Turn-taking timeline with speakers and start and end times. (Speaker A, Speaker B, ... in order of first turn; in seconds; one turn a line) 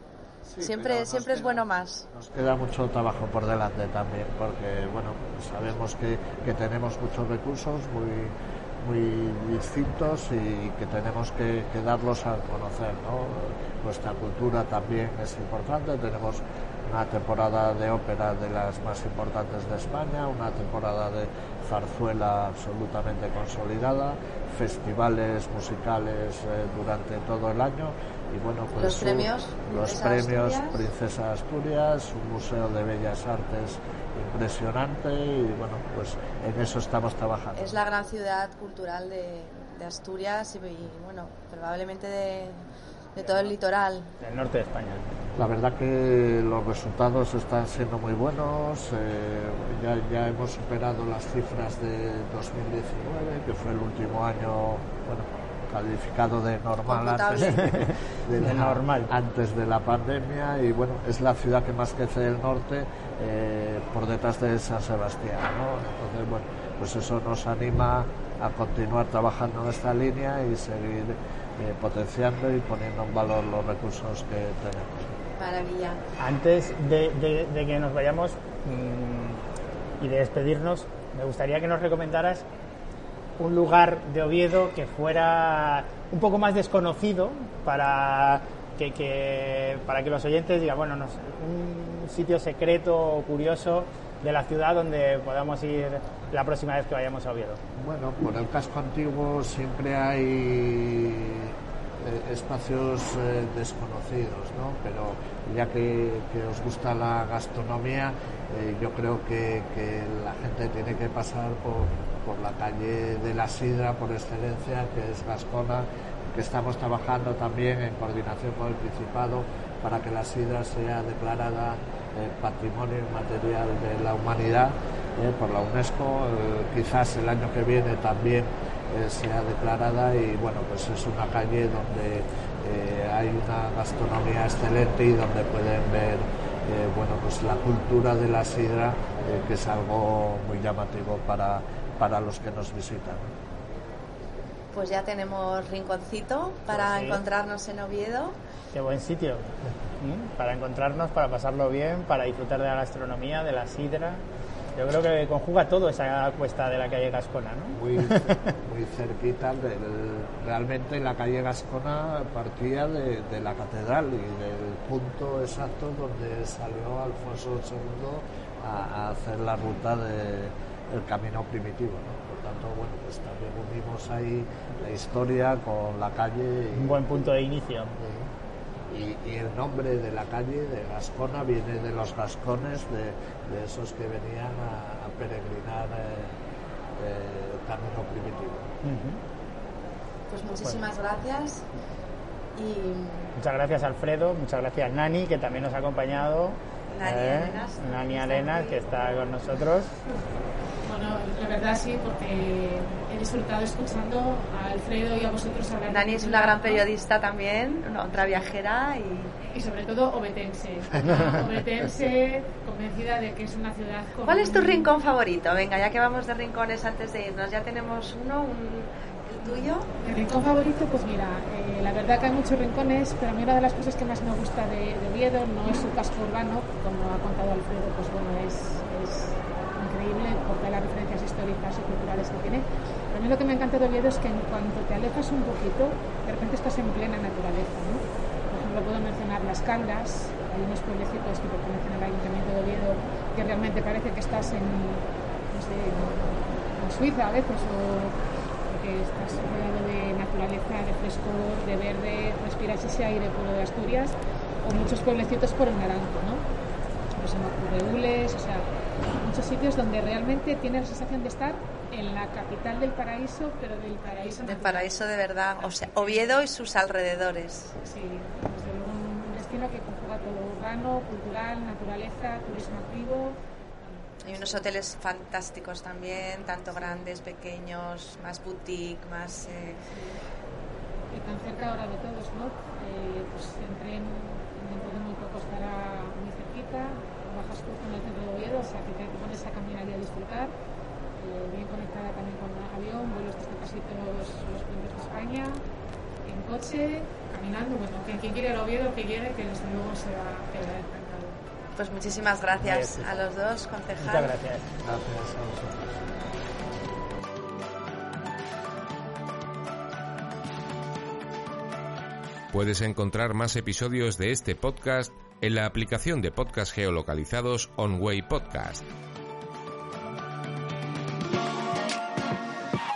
Speaker A: 0.4-37.8
Speaker B: 0.6-2.0
Speaker B: 28.7-30.8
Speaker B: 37.5-42.6
Speaker B: 43.1-44.1
Speaker C: 44.2-45.2
Speaker A: 45.4-75.2
Speaker B: 56.9-57.7
Speaker C: 58.3-59.1
Speaker B: 75.4-76.0
Speaker C: 76.2-79.4
Speaker C: 80.0-82.4
Speaker C: 83.4-97.6
Speaker A: 97.8-143.3
Speaker B: 144.7-148.3
Speaker C: 146.7-147.2
Speaker C: 148.7-154.2
Speaker C: 154.8-158.4
Speaker A: 157.7-177.3
Speaker C: 176.7-177.9
Speaker A: 178.0-178.3
Speaker A: 178.9-186.3
Speaker A: 187.0-188.7
Speaker C: 188.8-189.2
Speaker B: 190.3-191.6
Speaker B: 192.6-193.3
Speaker C: 193.3-199.9
Speaker B: 196.9-199.1
Speaker D: 200.8-206.8
Speaker B: 205.9-209.3
Speaker D: 209.5-214.9
Speaker B: 214.2-219.9
Speaker D: 219.4-248.1
Speaker D: 248.7-256.4
Speaker D: 257.2-258.6
Speaker D: 259.1-265.1
Speaker B: 264.4-267.7
Speaker D: 265.6-266.4
Speaker D: 267.8-274.7
Speaker B: 274.2-279.8
Speaker D: 281.1-290.5
Speaker D: 291.2-295.6
Speaker D: 296.2-301.4
Speaker B: 301.8-304.4
Speaker C: 302.6-303.1
Speaker C: 304.0-304.7
Speaker A: 304.8-306.0
Speaker E: 312.5-318.9